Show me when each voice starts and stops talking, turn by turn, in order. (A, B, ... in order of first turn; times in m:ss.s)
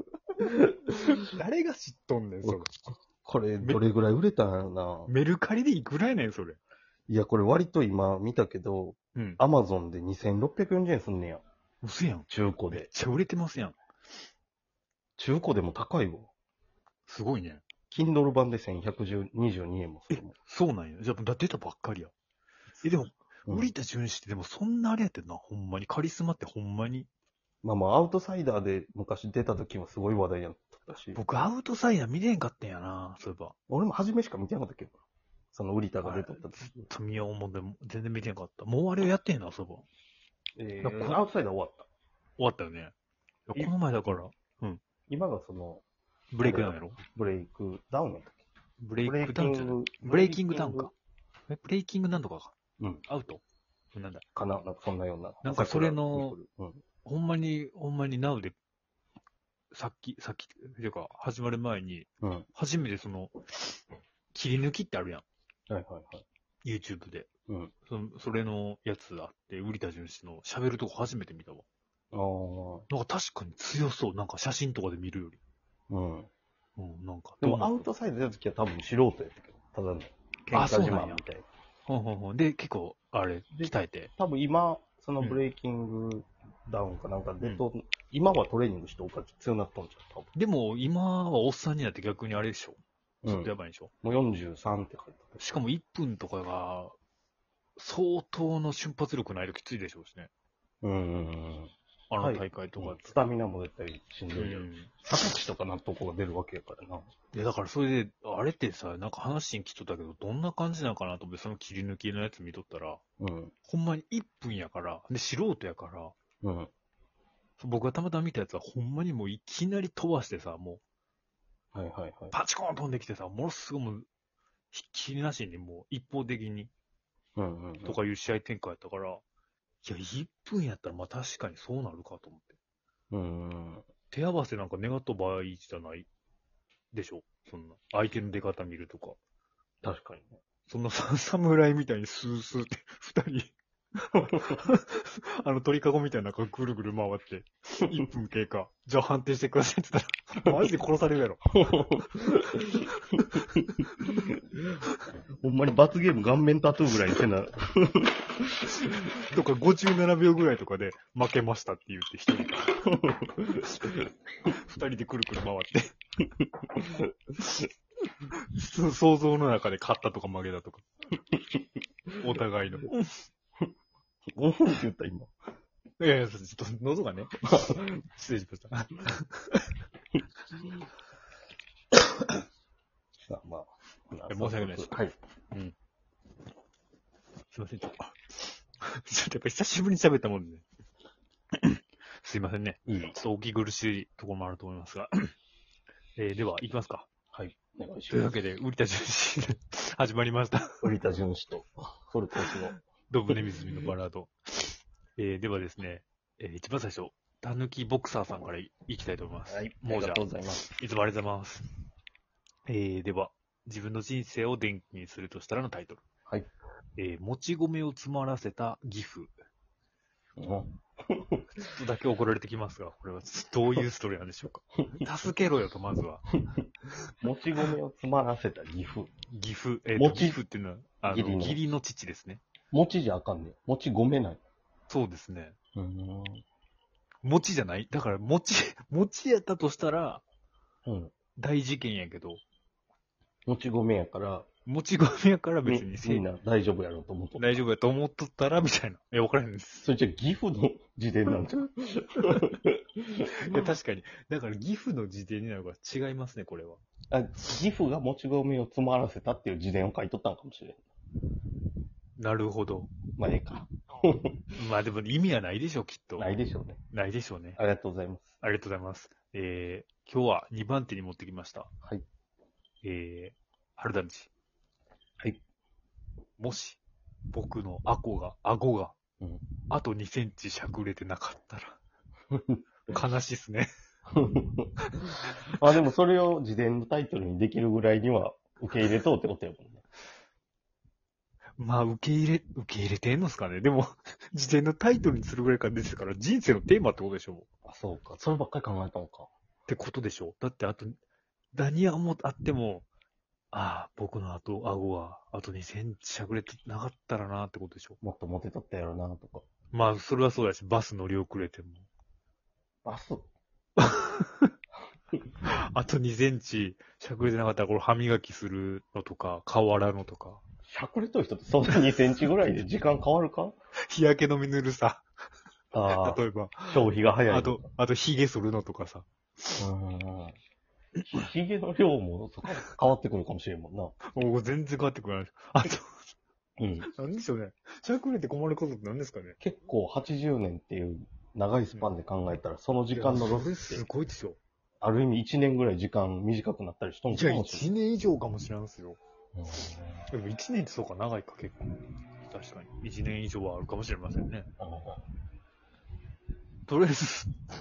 0:00.4-0:00.9 A
0:00.9-0:02.7 B
0:02.4-0:05.1 A
0:05.1-0:06.6 B
0:07.1-0:11.4 A
0:09.2-0:09.4 B
0:11.8-0:13.8 B
0:12.3-0:12.9 A
0:15.2-0:16.3 A
0:17.1-0:17.6 B
0:17.9-0:20.4 A
0:20.1-0:22.1 B
0:22.8-0:27.1 B
0:27.6-0:31.2 A
0:31.2-0:33.6 B
0:33.7-0:35.0 A
0:35.5-0:36.9 A
0:36.0-0:39.8 B
0:40.6-0:41.9 A
0:40.8-0:41.2 B
0:42.4-0:42.9 B
0:43.5-0:44.8 B
0:45.1-0:45.8 A
0:46.3-0:47.0 B
0:46.4-0:48.4 A
0:48.8-0:50.9 B
0:49.0-0:50.9 A
0:51.5-0:53.4 B
0:52.8-0:53.0 A
0:53.9-0:54.2 B
0:54.4-0:56.8 A
0:55.4-0:56.4 B
0:57.0-0:58.6 B
0:59.7-1:03.8 B
1:02.2-1:02.5 A
1:04.3-1:05.2 B
1:05.7-1:06.2 A
1:06.6-1:07.3 B
1:07.9-1:11.6 B
1:12.1-1:12.9 A
1:12.9-1:15.4 B
1:15.9-1:16.3 A
1:16.8-1:17.8 B
1:17.4-1:21.5 A
1:20.5-1:21.2 B
1:21.9-1:24.1 B
1:23.5-1:30.3 A
1:30.4-1:33.9 B
1:33.2-1:35.3 A
1:35.4-1:37.0 B
1:37.8-1:40.3 B
1:40.8-1:47.1 A
1:42.1-1:43.2 B
1:44.4-1:44.9 B
1:47.3-1:53.0 B
1:53.2-1:53.5 A
1:53.6-1:56.2 B
1:56.4-1:56.7 A
1:57.6-2:00.8 B
2:01.7-2:02.4 A
2:02.3-2:04.1 B
2:04.7-2:06.7 B
2:07.4-2:08.0 A
2:07.8-2:09.2 B
2:09.8-2:12.6 B
2:13.1-2:13.9 A
2:14.1-2:16.1 B
2:16.9-2:19.2 B
2:19.8-2:20.3 A
2:20.7-2:34.2 B
2:31.6-2:33.2 A
2:34.0-2:34.6 A
2:35.4-2:39.1 A
2:38.7-2:45.9 B
2:42.9-2:44.1 A
2:46.6-2:47.1 A
2:47.4-2:47.7 B
2:48.3-2:50.8 B
2:52.2-2:53.2 B
2:54.4-2:55.3 A
2:56.0-2:59.7 B
2:57.6-2:57.8 A
3:03.3-3:05.1 A
3:04.3-3:05.0 B
3:07.5-3:10.6 B
3:11.6-3:15.3 B
3:12.9-3:13.2 A
3:16.2-3:17.1 B
3:17.3-3:18.4 A
3:18.1-3:20.9 B
3:20.8-3:22.8 A
3:23.1-3:31.7 B
3:29.5-3:30.7 A
3:32.7-3:36.0 B
3:37.0-3:39.3 B
3:40.4-3:41.5 A
3:41.6-3:46.3 B
3:47.1-3:49.1 A
3:49.3-3:52.4 B
3:50.0-3:50.4 A
3:51.1-3:51.6 A
3:52.7-3:54.4 A
3:54.9-3:55.6 B
3:55.8-3:56.4 A
3:57.2-4:00.2 B
4:00.8-4:01.1 A
4:01.4-4:02.4 B
4:03.5-4:04.5 A
4:04.7-4:06.2 B
4:05.6-4:07.6 A
4:07.4-4:09.8 B
4:09.7-4:13.3 A
4:13.2-4:16.8 B
4:17.1-4:20.8 A
4:22.2-4:22.9 B
4:23.2-4:24.5 A
4:24.6-4:26.3 B
4:26.2-4:26.8 A
4:26.9-4:27.6 B
4:27.6-4:28.4 A
4:28.4-4:31.7 B
4:32.8-4:34.3 B
4:36.4-4:36.8 B
4:37.3-4:39.0 B
4:39.7-4:41.8 B
4:42.3-4:43.0 A
4:42.9-4:43.7 B
4:44.1-4:44.7 A
4:44.9-4:45.2 B
4:45.6-4:49.8 A
4:51.6-4:57.5 B
4:57.6-4:59.3 A
4:59.7-5:01.0 B
5:01.5-5:02.9 B
5:03.5-5:08.0 B
5:08.0-5:09.4 A
5:09.7-5:11.9 B
5:12.8-5:13.3 A
5:13.8-5:14.5 B
5:15.4-5:20.4 B
5:20.7-5:23.5 A
5:23.9-5:25.0 B
5:25.7-5:27.7 A
5:25.9-5:29.6 B
5:29.6-5:30.4 A
5:31.1-5:34.0 A
5:34.1-5:36.1 B
5:36.6-5:36.9 A
5:36.8-5:39.4 B
5:39.4-5:43.8 A
5:42.9-5:44.4 B
5:44.8-5:47.7 A
5:47.1-5:49.0 B
5:49.4-5:50.1 A
5:50.1-5:51.7 B
5:52.2-5:54.5 B
5:54.6-5:55.0 A
5:56.7-5:57.3 B